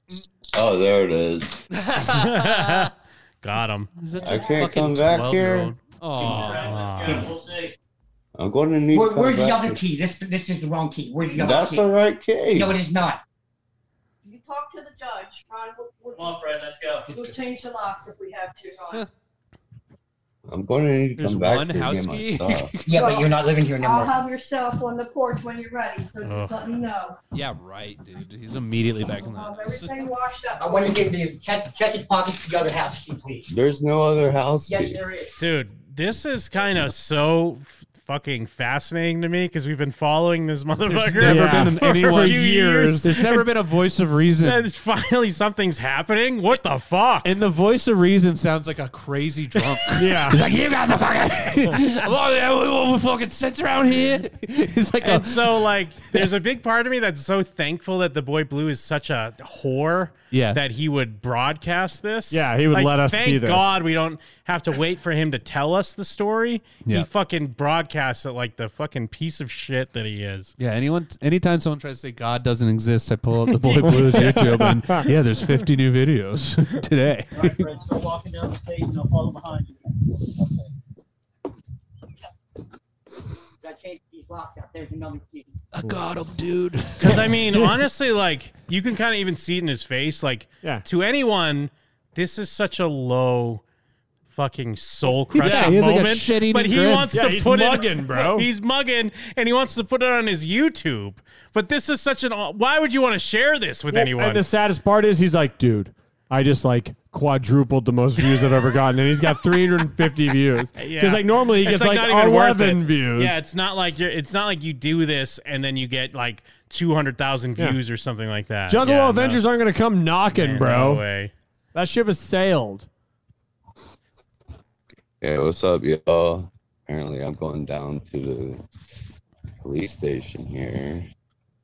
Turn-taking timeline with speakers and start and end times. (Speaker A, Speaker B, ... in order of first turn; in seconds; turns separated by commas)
Speaker A: 0.5-1.6, Speaker B: 1.7-2.9, Speaker C: 2.0-3.9, Speaker B: 4.0-6.8, Speaker A: 4.2-5.8, Speaker D: 6.2-7.7, Speaker C: 6.2-7.3, Speaker A: 8.3-9.8, Speaker E: 8.9-11.8, Speaker F: 11.2-11.7, Speaker A: 11.3-12.8, Speaker E: 12.5-13.2, Speaker F: 14.2-16.4, Speaker D: 16.1-17.1, Speaker F: 17.1-19.1, Speaker A: 20.5-22.7, Speaker B: 21.2-23.2, Speaker E: 22.9-24.2, Speaker F: 22.9-27.2, Speaker C: 26.2-26.6, Speaker B: 27.3-30.1, Speaker F: 29.1-31.0, Speaker E: 30.6-33.5, Speaker A: 33.5-35.0, Speaker E: 34.7-35.3, Speaker C: 35.4-43.4, Speaker B: 40.9-44.7, Speaker G: 41.2-43.0, Speaker C: 44.4-47.3, Speaker B: 47.2-56.2, Speaker G: 49.9-50.4, Speaker C: 55.0-70.5, Speaker B: 60.3-60.6, Speaker G: 62.3-63.7, Speaker B: 70.6-77.6, Speaker G: 73.9-75.0, Speaker D: 77.3-80.7, Speaker E: 83.6-85.6, Speaker B: 85.8-87.7, Speaker C: 87.0-93.6, Speaker C: 94.3-104.4, Speaker B: 95.3-97.1, Speaker G: 95.4-95.8, Speaker G: 97.1-98.5, Speaker G: 103.9-113.4, Speaker C: 110.8-119.4, Speaker G: 118.7-121.0, Speaker C: 120.3-121.3, Speaker G: 121.7-122.9, Speaker A: 125.2-128.6, Speaker A: 129.6-131.1